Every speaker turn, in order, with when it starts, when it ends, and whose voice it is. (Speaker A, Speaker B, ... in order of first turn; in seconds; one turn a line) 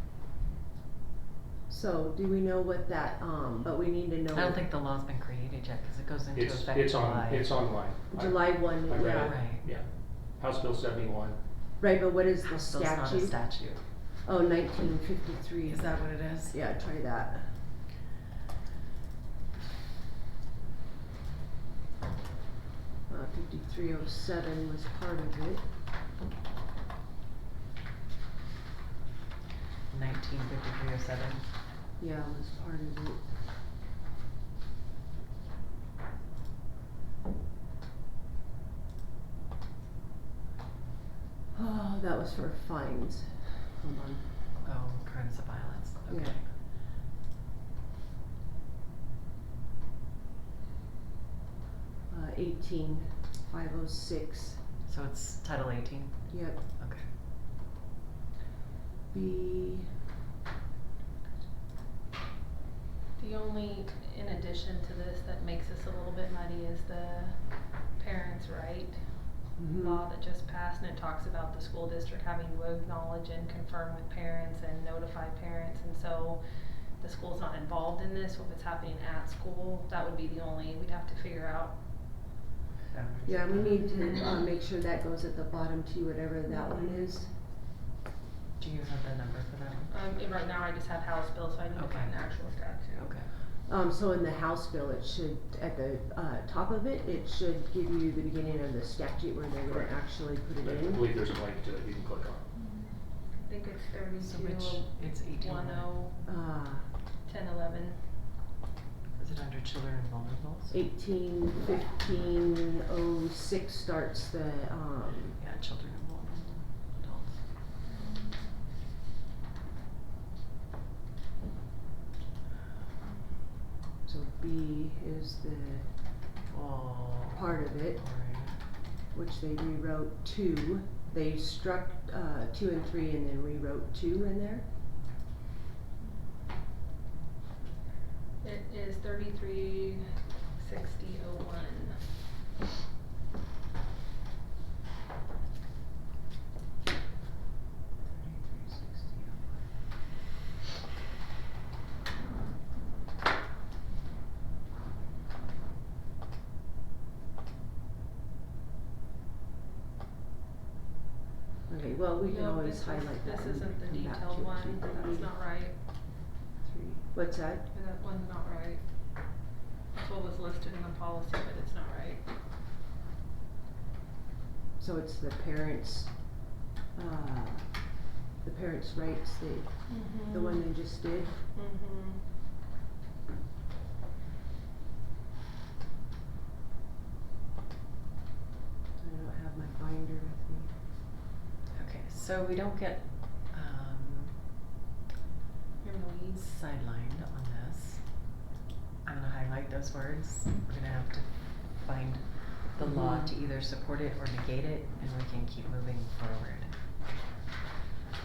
Speaker A: 1.7-4.6
Speaker B: 4.3-7.5
Speaker C: 6.3-11.4
Speaker A: 8.1-9.3
Speaker B: 9.2-9.7
Speaker A: 11.8-13.4
Speaker B: 12.4-13.8
Speaker A: 14.2-17.5
Speaker B: 15.7-16.6
Speaker A: 23.1-25.6
Speaker B: 29.9-31.4
Speaker A: 32.0-33.2
Speaker A: 41.5-44.2
Speaker B: 44.6-46.5
Speaker A: 46.1-46.3
Speaker A: 52.1-54.6
Speaker B: 54.9-57.0
Speaker A: 56.3-56.6
Speaker A: 59.1-59.9
Speaker D: 63.2-69.0
Speaker A: 69.6-70.0
Speaker D: 69.7-81.8
Speaker B: 82.9-83.8
Speaker A: 83.3-87.3
Speaker D: 86.5-87.1
Speaker B: 88.6-89.9
Speaker D: 89.9-93.1
Speaker B: 91.7-92.1
Speaker B: 93.0-93.3
Speaker A: 93.7-101.1
Speaker C: 99.7-100.0
Speaker C: 100.6-102.4
Speaker D: 102.5-106.2
Speaker B: 104.2-105.9
Speaker A: 106.2-106.9
Speaker D: 107.2-108.0
Speaker B: 109.2-110.8
Speaker A: 110.7-115.4
Speaker B: 115.4-117.4
Speaker D: 117.9-118.4
Speaker A: 124.0-125.9
Speaker B: 126.5-128.6
Speaker A: 127.3-128.0
Speaker A: 129.1-134.6
Speaker D: 138.4-142.0
Speaker A: 148.1-149.4
Speaker A: 161.7-165.3
Speaker D: 162.2-165.7
Speaker A: 166.6-167.7
Speaker D: 167.7-168.8
Speaker D: 169.9-172.2
Speaker A: 174.8-176.2
Speaker A: 176.9-177.7
Speaker A: 178.4-179.7
Speaker D: 179.9-180.8
Speaker A: 180.3-181.4
Speaker D: 181.5-182.2
Speaker A: 189.0-190.7
Speaker B: 191.7-194.4
Speaker D: 195.8-196.4
Speaker B: 196.4-198.4
Speaker B: 199.0-206.7
Speaker A: 202.8-203.3